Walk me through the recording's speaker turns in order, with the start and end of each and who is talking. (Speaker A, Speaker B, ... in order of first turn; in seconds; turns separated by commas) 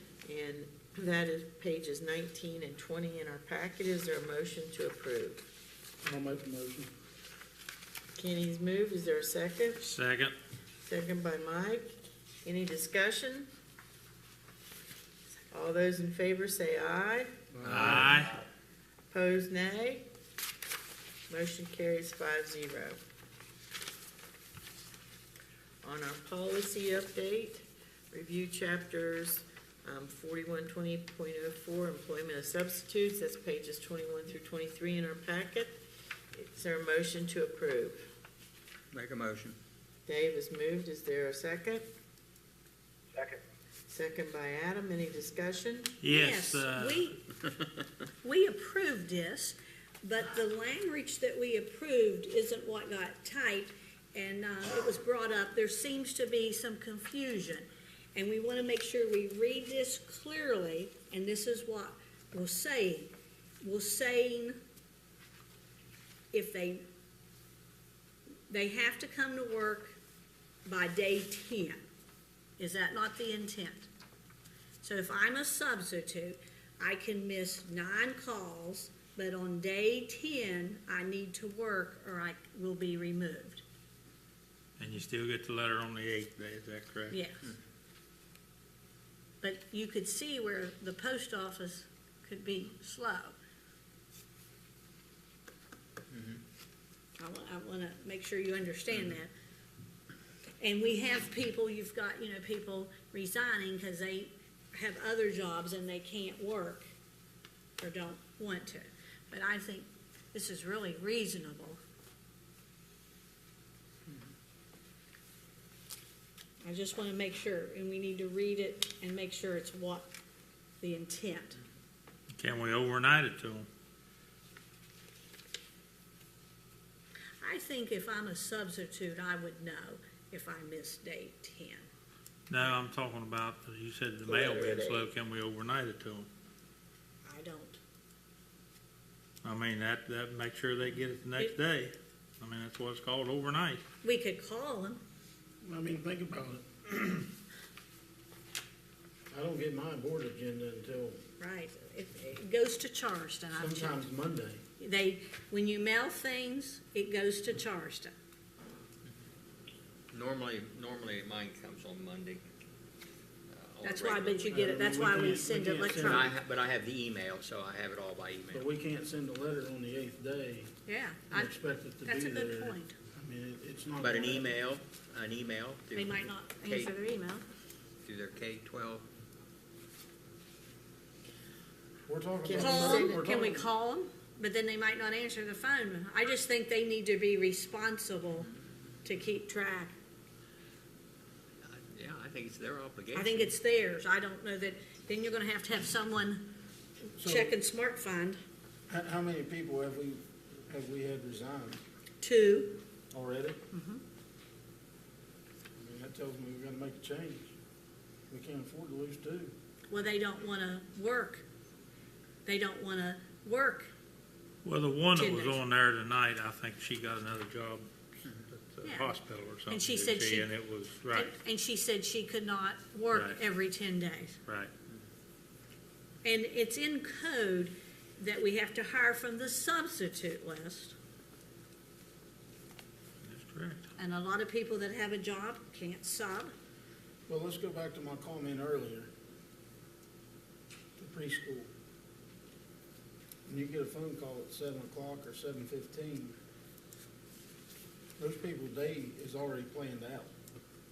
Speaker A: 0.2-5.4, Speaker B: 6.0-6.9, Speaker A: 8.2-9.8, Speaker C: 9.8-10.3, Speaker A: 10.8-11.8, Speaker A: 12.4-13.5, Speaker A: 15.5-18.1, Speaker B: 17.5-18.1, Speaker D: 17.6-18.2, Speaker C: 17.7-18.4, Speaker A: 19.1-20.1, Speaker A: 21.3-23.0, Speaker A: 25.8-35.8, Speaker A: 36.3-38.0, Speaker D: 38.9-39.6, Speaker A: 40.0-41.8, Speaker A: 43.9-45.9, Speaker C: 46.0-47.1, Speaker E: 46.1-47.2, Speaker E: 48.2-64.6, Speaker E: 66.3-66.8, Speaker E: 68.5-70.0, Speaker E: 70.6-71.8, Speaker E: 72.6-73.9, Speaker E: 74.8-83.6, Speaker C: 84.8-87.2, Speaker E: 87.1-87.4, Speaker E: 89.4-93.3, Speaker D: 96.1-96.4, Speaker E: 97.2-99.3, Speaker E: 100.6-106.9, Speaker E: 107.8-111.8, Speaker E: 116.6-120.1, Speaker E: 120.8-121.6, Speaker C: 122.3-123.7, Speaker E: 127.4-131.9, Speaker C: 132.5-136.3, Speaker A: 134.2-135.1, Speaker E: 137.2-137.8, Speaker C: 139.4-143.8, Speaker E: 144.0-145.0, Speaker B: 145.6-147.3, Speaker B: 149.3-151.2, Speaker E: 151.4-154.1, Speaker B: 153.6-154.6, Speaker E: 154.8-158.1, Speaker D: 160.1-162.4, Speaker D: 163.5-164.7, Speaker E: 163.8-166.3, Speaker B: 164.5-166.3, Speaker D: 166.0-168.6, Speaker B: 168.5-170.7, Speaker E: 170.8-172.9, Speaker B: 171.3-174.6, Speaker D: 174.0-176.9, Speaker E: 175.9-177.4, Speaker D: 178.0-179.1, Speaker B: 182.1-183.7, Speaker A: 182.4-183.2, Speaker E: 182.6-188.5, Speaker E: 189.0-189.9, Speaker D: 191.6-193.5, Speaker E: 193.1-196.5, Speaker E: 197.1-198.4, Speaker B: 197.2-197.6, Speaker B: 198.9-201.8, Speaker E: 202.2-202.8, Speaker B: 203.1-203.6, Speaker E: 203.7-204.0, Speaker B: 205.8-207.5, Speaker B: 208.3-209.5, Speaker E: 209.9-211.4, Speaker E: 212.4-213.9, Speaker C: 214.6-217.9, Speaker E: 215.1-215.6, Speaker C: 218.4-221.3, Speaker E: 218.8-219.1, Speaker E: 219.7-220.5, Speaker E: 221.1-224.4, Speaker E: 226.2-230.9, Speaker C: 233.2-233.8, Speaker E: 234.0-236.5, Speaker B: 237.3-239.1, Speaker B: 241.0-241.7, Speaker B: 243.4-246.4, Speaker B: 248.2-250.3